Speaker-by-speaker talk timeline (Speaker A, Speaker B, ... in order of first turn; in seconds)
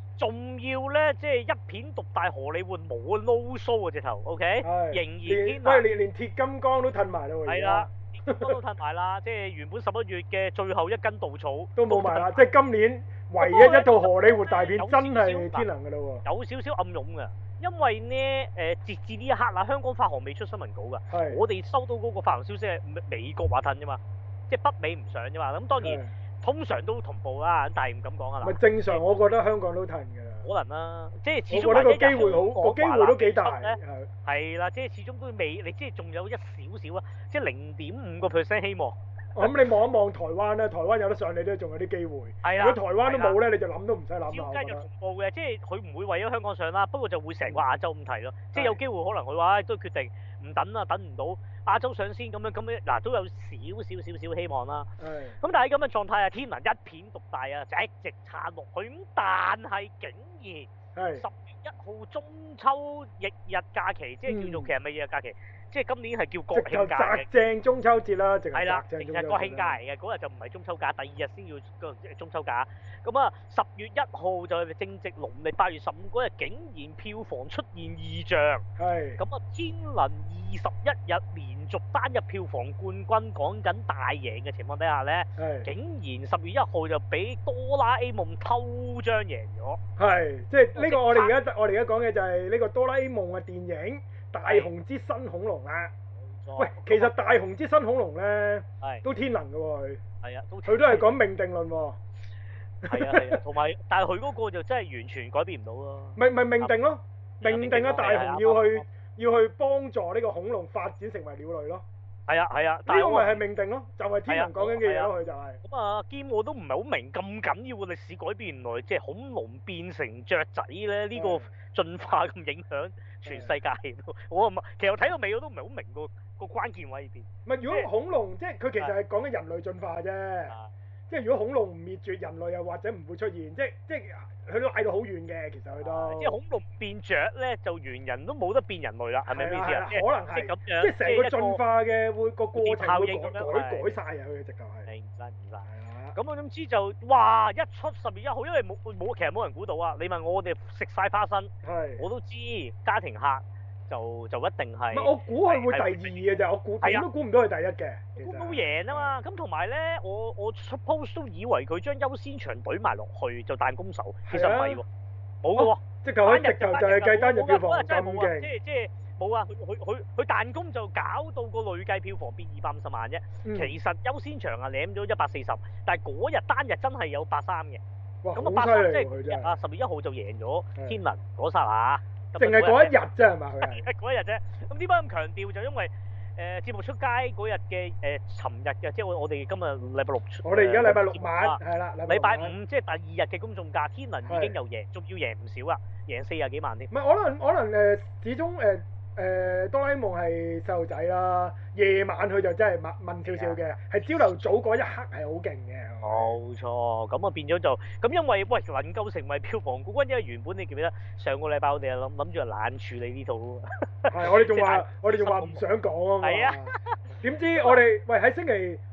Speaker A: 0.2-5.8, 7.5-12.5, 13.4-15.7, 16.2-29.1, 30.4-39.0, 42.4-43.4, 44.3-67.3, 68.5-78.6, 79.2-89.8, 90.7-91.3, 94.4-94.7, 96.2-97.4, 100.2-101.1, 102.9-106.7, 107.4-108.8, 112.3-113.4, 114.3-115.1, 115.6-127.9, 135.8-141.6, 142.5-144.0, 144.8-157.1, 158.2-164.8, 165.4-177.8, 178.3-182.9, 183.6-196.9, 203.2-203.6, 206.0-215.6, 216.2-217.0
Speaker B: 4.6-8.6, 11.7-16.2, 21.1-21.4, 25.8-26.1, 28.4-30.5, 31.5-34.1, 39.3-44.9, 48.5-48.8, 55.0-55.4, 60.9-61.2, 64.3-64.7, 66.5-69.8, 78.8-79.2, 85.4-85.7, 90.0-95.9, 96.6-100.0, 100.6-102.0, 102.8-103.4, 106.2-111.8, 112.8-115.6, 121.1-121.5, 123.2-123.5, 127.5-130.5, 131.1-136.4, 139.3-144.9, 145.6-146.2, 151.6-152.0, 154.9-159.1, 164.3-164.8, 165.6-168.5, 173.4-173.7, 178.2-179.6, 182.4-183.8, 190.4-192.5, 194.3-194.5, 196.9-206.4, 214.1-218.8